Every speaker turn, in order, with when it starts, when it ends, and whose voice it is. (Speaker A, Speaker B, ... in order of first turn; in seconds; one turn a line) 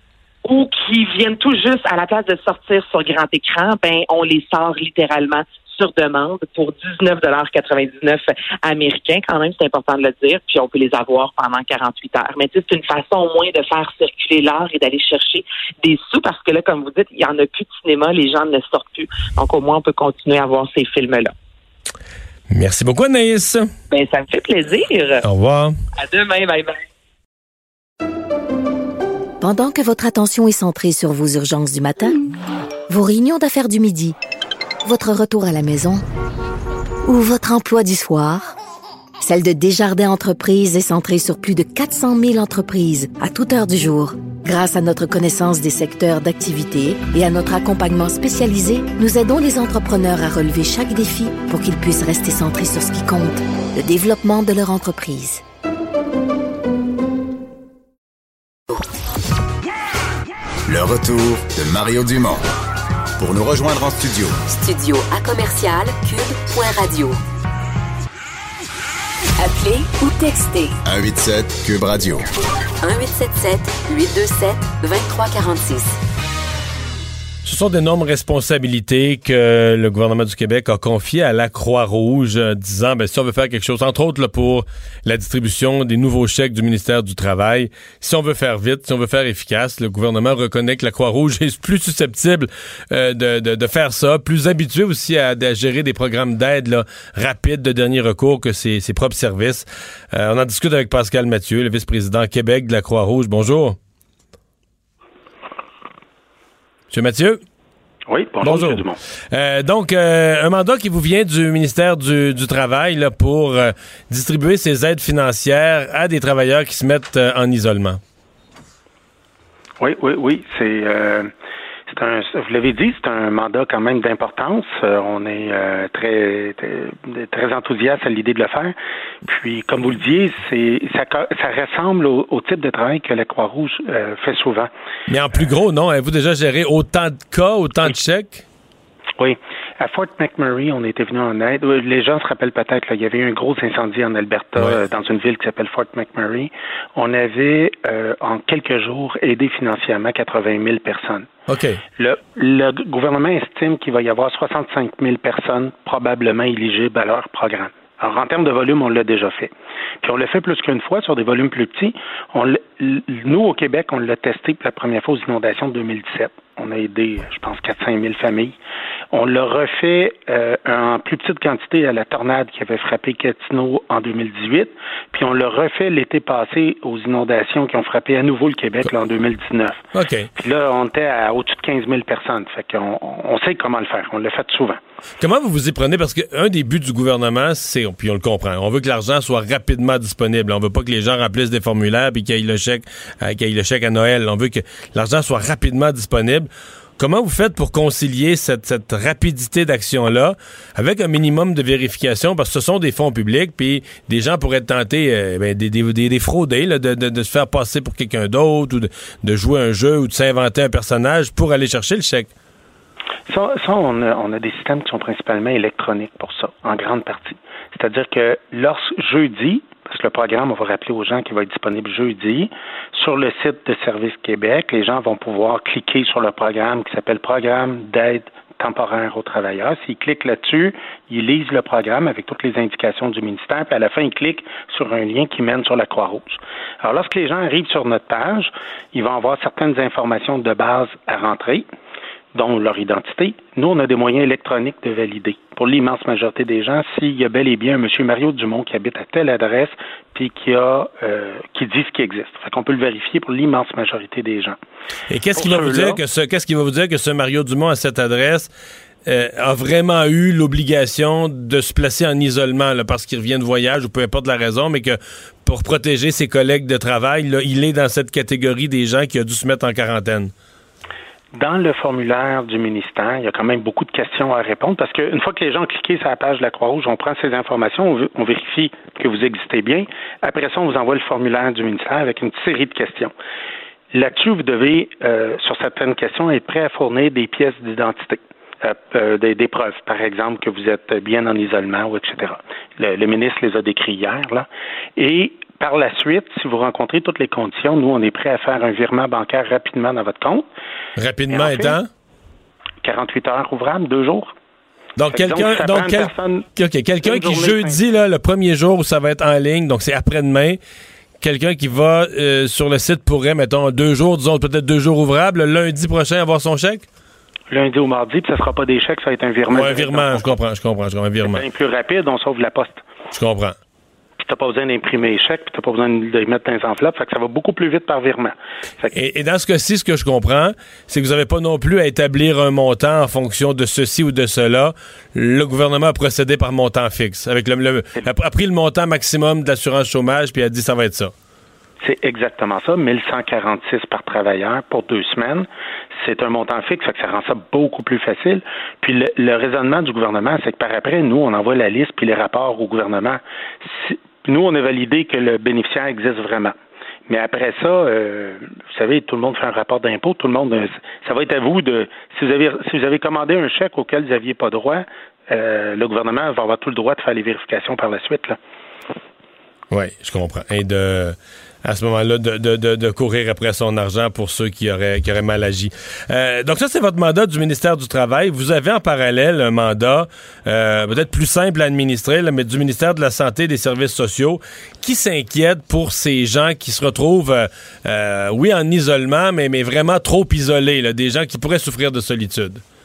Speaker A: 0.5-21.3
Speaker B: 22.5-23.7
Speaker A: 23.9-25.2
Speaker B: 25.2-25.8
Speaker A: 26.0-26.8
Speaker C: 29.4-32.1
Speaker C: 32.9-34.2
Speaker C: 34.8-36.0
Speaker C: 37.1-38.5
Speaker C: 39.2-55.4
Speaker D: 60.7-62.4
Speaker D: 63.2-64.4
Speaker E: 64.5-67.2
Speaker E: 69.4-70.8
Speaker D: 70.8-72.2
Speaker E: 72.8-76.0
Speaker B: 77.4-103.8
Speaker B: 106.9-107.4
Speaker F: 108.1-109.0
Speaker B: 108.4-118.0
Speaker F: 119.8-121.3
Speaker F: 121.9-134.7
Speaker B: 135.1-138.4
Speaker F: 139.2-151.3
Speaker B: 151.5-151.8
Speaker F: 152.0-168.6
Speaker F: 169.1-179.8
Speaker B: 179.9-180.3
Speaker F: 180.4-184.8
Speaker B: 185.2-212.3
Speaker F: 213.3-241.7
Speaker F: 242.3-254.6
Speaker B: 255.1-258.5
Speaker F: 255.3-256.0
Speaker B: 259.1-270.3
Speaker F: 271.4-283.1
Speaker F: 283.9-300.4
Speaker B: 301.0-301.9
Speaker F: 301.3-301.8
Speaker F: 302.8-304.3
Speaker B: 305.0-310.6
Speaker F: 305.1-306.5
Speaker F: 307.0-307.8
Speaker B: 311.2-316.9
Speaker F: 317.5-320.4
Speaker B: 319.5-321.4
Speaker F: 321.2-322.8
Speaker B: 323.1-323.6
Speaker F: 324.2-328.9
Speaker B: 328.9-341.1
Speaker F: 341.8-345.5
Speaker F: 346.0-356.6
Speaker F: 357.1-368.4
Speaker B: 369.7-392.6